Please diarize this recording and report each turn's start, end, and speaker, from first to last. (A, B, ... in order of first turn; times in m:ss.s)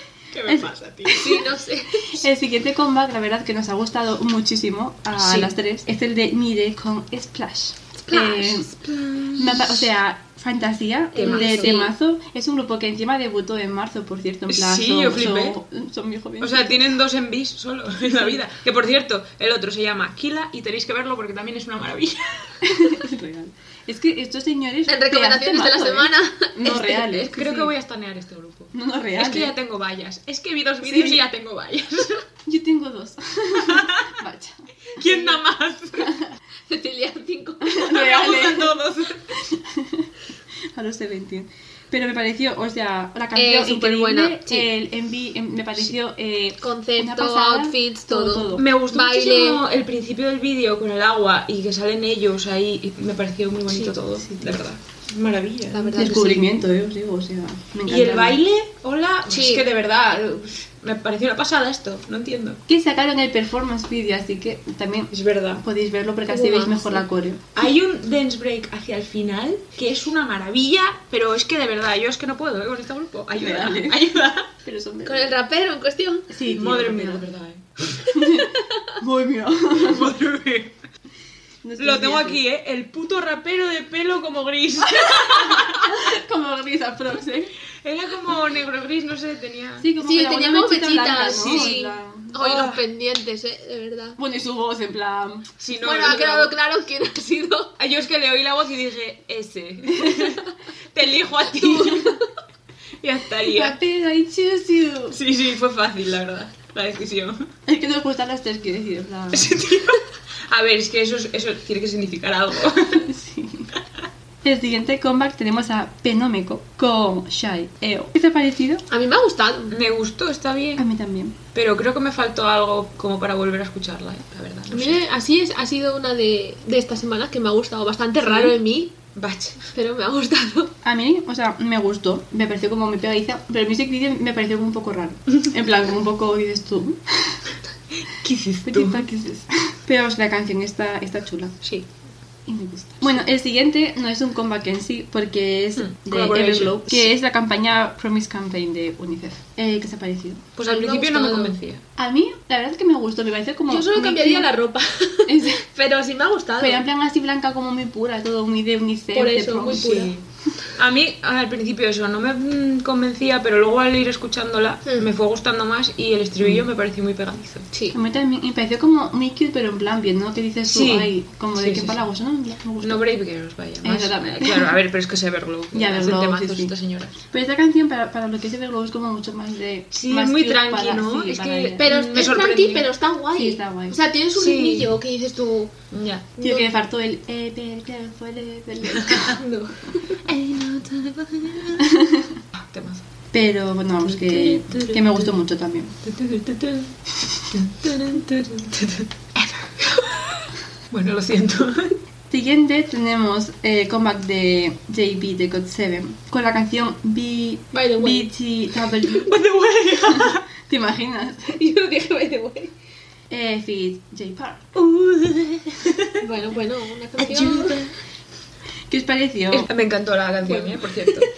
0:00.3-0:01.5 A
0:00.5-0:01.4 B
0:01.1-0:02.2 C
0:02.0-0:08.7 B
0:05.2-0:05.5 A
0:08.1-0:08.7 C
0:08.7-0:09.9 A
0:09.4-0:16.9 B
0:11.2-0:11.9 C
0:11.2-0:11.8 A
0:14.5-0:15.6 A
0:16.4-0:22.7 A
0:22.6-0:27.7 B
0:24.9-0:27.3 C
0:27.3-0:32.2 A
0:28.7-0:29.5 B
0:30.8-0:31.2 B
0:32.5-0:35.1 B
0:33.6-0:34.1 A
0:34.9-0:36.2 A
0:35.0-0:35.4 C
0:36.7-0:38.5 C
0:37.6-0:38.8 B
0:37.8-0:39.2 A
0:39.3-0:40.1 B
0:40.7-0:48.7 B
0:43.4-0:44.7 C
0:46.6-0:49.6 C
0:48.6-0:56.1 A
0:54.3-0:54.6 B
0:55.7-0:56.5 C
0:56.0-0:58.4 B
0:57.9-1:02.6 A
0:59.3-0:59.7 C
1:02.7-1:07.4 B
1:05.1-1:05.6 A
1:06.3-1:07.0 C
1:07.6-1:14.5 A
1:13.4-1:14.0 B
1:14.6-1:15.3 B
1:15.0-1:16.3 C
1:16.3-1:17.3 B
1:16.5-1:18.1 A
1:18.2-1:20.1 B
1:18.3-1:18.9 C
1:19.7-1:20.8 A
1:21.6-1:22.4 B
1:21.8-1:26.1 A
1:24.9-1:27.5 B
1:27.8-1:29.9 A
1:29.8-1:32.8 B
1:30.0-1:34.2 C
1:31.3-1:31.8 A
1:34.2-1:35.5 B
1:35.6-1:36.5 A
1:35.8-1:37.7 C
1:37.8-1:42.2 A
1:41.5-1:42.3 C
1:43.0-1:43.8 A
1:43.5-1:45.2 B
1:45.1-1:47.5 A
1:47.7-1:49.6 B
1:49.3-1:53.1 A
1:52.8-1:53.7 B
1:54.4-1:58.8 B
1:58.9-1:59.8 C
1:59.7-2:00.8 A
2:00.8-2:01.4 B
2:01.5-2:05.0 A
2:04.7-2:08.9 C
2:08.2-2:08.6 A
2:09.2-2:09.6 A
2:09.7-2:10.7 C
2:10.8-2:17.4 B
2:18.1-2:19.0 A
2:18.6-2:21.6 B
2:22.5-2:30.4 B
2:25.8-2:27.1 A
2:30.6-2:31.8 A
2:30.6-2:31.6 C
2:32.0-2:34.5 B
2:33.7-2:36.8 C
2:35.3-2:35.6 B
2:36.6-2:40.1 B
2:39.1-2:40.1 C
2:39.7-2:40.2 A
2:40.7-2:47.7 A
2:47.9-2:53.0 B
2:50.7-2:52.0 A
2:52.8-2:57.2 A
2:53.8-2:54.8 B
2:55.7-2:56.7 B
2:57.3-3:01.9 B
2:59.9-3:02.9 A
3:01.8-3:05.7 C
3:03.4-3:04.0 B
3:04.4-3:04.9 A
3:05.9-3:06.4 A
3:06.4-3:06.6 C
3:06.4-3:09.4 B
3:08.9-3:09.4 A
3:09.2-3:10.2 C
3:10.2-3:12.0 A
3:11.8-3:12.4 B
3:12.6-3:13.0 A
3:13.3-3:15.9 B
3:14.0-3:15.3 A
3:16.0-3:16.9 A
3:17.5-3:22.0 A
3:22.3-3:29.3 B
3:27.7-3:28.3 C
3:29.2-3:30.4 A
3:30.0-3:31.6 B
3:31.5-3:32.7 C
3:33.3-3:34.7 B
3:34.8-3:36.2 A
3:36.2-3:37.8 C
3:37.2-3:37.9 A
3:38.9-3:39.7 B
3:39.5-3:41.3 A
3:40.4-3:41.2 C